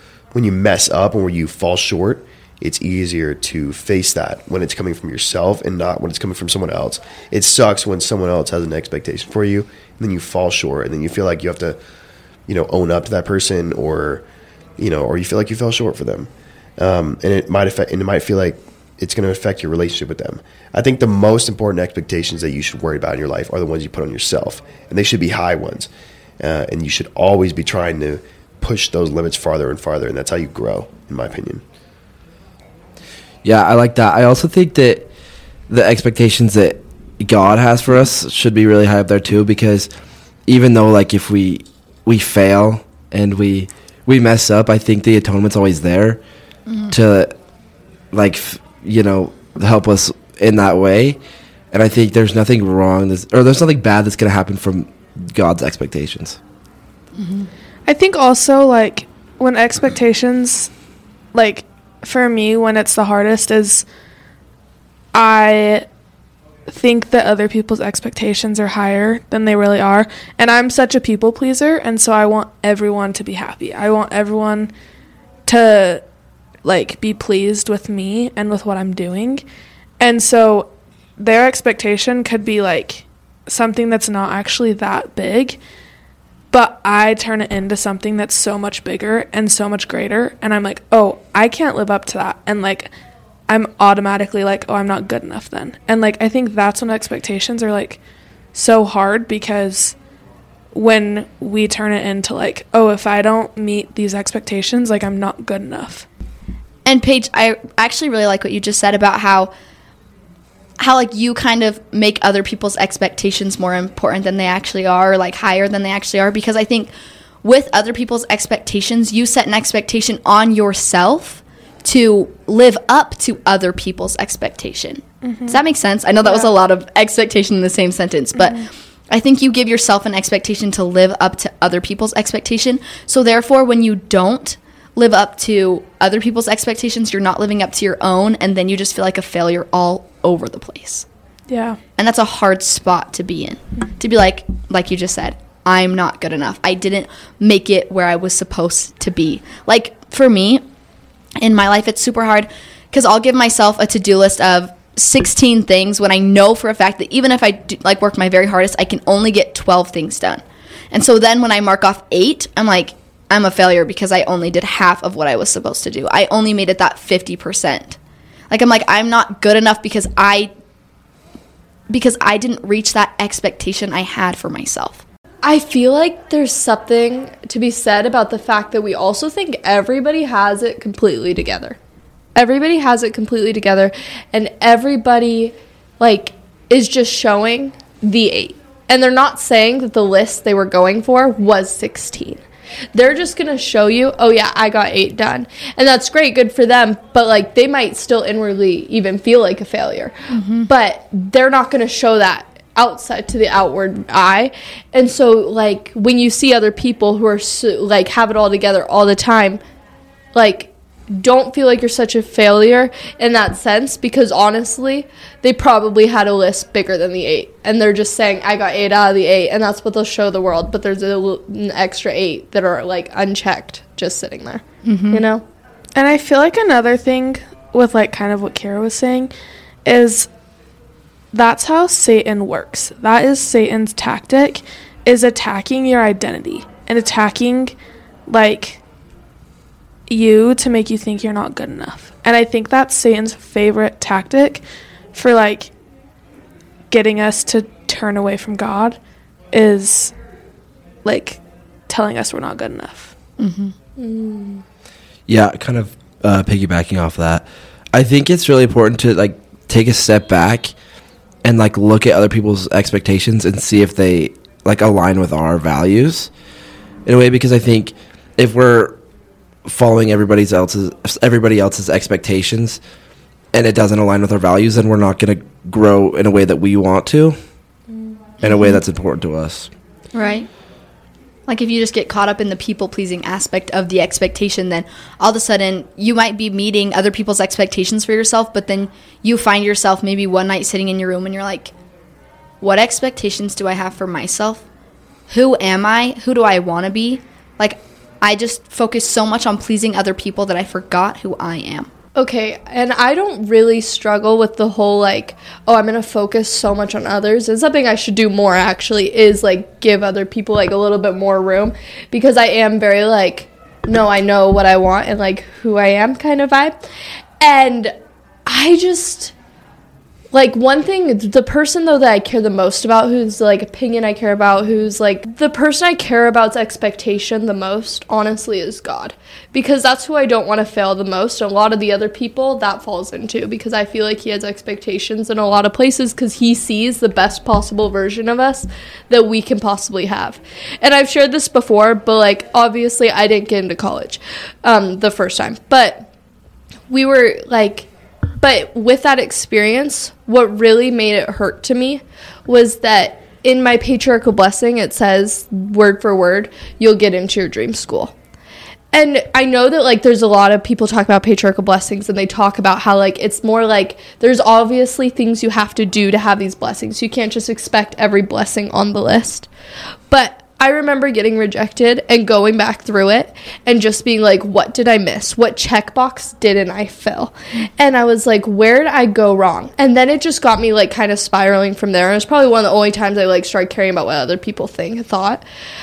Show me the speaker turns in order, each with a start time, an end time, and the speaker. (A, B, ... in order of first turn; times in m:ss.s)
0:00.3-0:11.8 A
0:12.5-0:14.2 A
0:14.8-0:31.6 A
0:33.4-0:35.1 B
0:35.7-0:39.9 B
0:40.5-0:46.2 B
0:46.9-0:47.4 B
0:48.1-0:51.2 B
0:51.7-0:56.4 B
0:57.2-0:57.5 C
0:57.9-1:00.7 D
1:01.3-1:03.8 D
1:05.1-1:05.9 D
1:06.7-1:14.7 D
1:15.5-1:16.0 D
1:16.6-1:19.4 D
1:20.0-1:25.6 D
1:26.5-1:32.9 D
1:33.5-1:38.0 D
1:38.5-1:40.0 D
1:40.7-1:46.1 D
1:46.8-1:49.5 C
1:50.8-1:56.9 C
1:57.4-2:21.1 C
2:05.2-2:05.6 D
2:21.5-2:21.8 D
2:22.0-2:30.6 C
2:31.4-2:48.0 C
2:48.5-2:50.5 C
2:51.9-2:55.0 C
2:55.4-3:01.8 E
3:02.4-3:12.4 E
3:12.9-3:20.2 E
3:20.3-3:20.7 C
3:20.7-3:29.6 E
3:30.4-3:45.4 E
3:44.8-3:45.2 C
3:46.0-3:49.3 D
3:49.8-3:50.3 D
3:51.3-3:57.8 D
3:58.3-3:58.8 D
4:00.1-4:04.6 D
4:05.1-4:05.7 D
4:06.9-4:09.0 D
4:09.5-4:10.1 D
4:11.0-4:13.1 D
4:13.4-4:13.7 C
4:14.0-4:14.6 E
4:15.3-4:20.7 B
4:21.4-4:26.3 B
4:27.1-4:29.0 B
4:29.6-4:32.8 B
4:33.5-4:37.4 B
4:38.4-4:38.8 C
4:38.4-4:39.7 B
4:40.1-4:40.5 C
4:41.5-4:51.7 C
4:52.6-4:54.6 C
4:55.3-5:01.9 C
5:02.2-5:16.8 E
5:17.4-5:17.9 E
5:18.5-5:19.3 E
5:20.3-5:46.1 E
5:46.9-5:47.9 E
5:48.4-5:58.1 E
5:58.9-6:09.5 E
6:10.1-6:25.4 E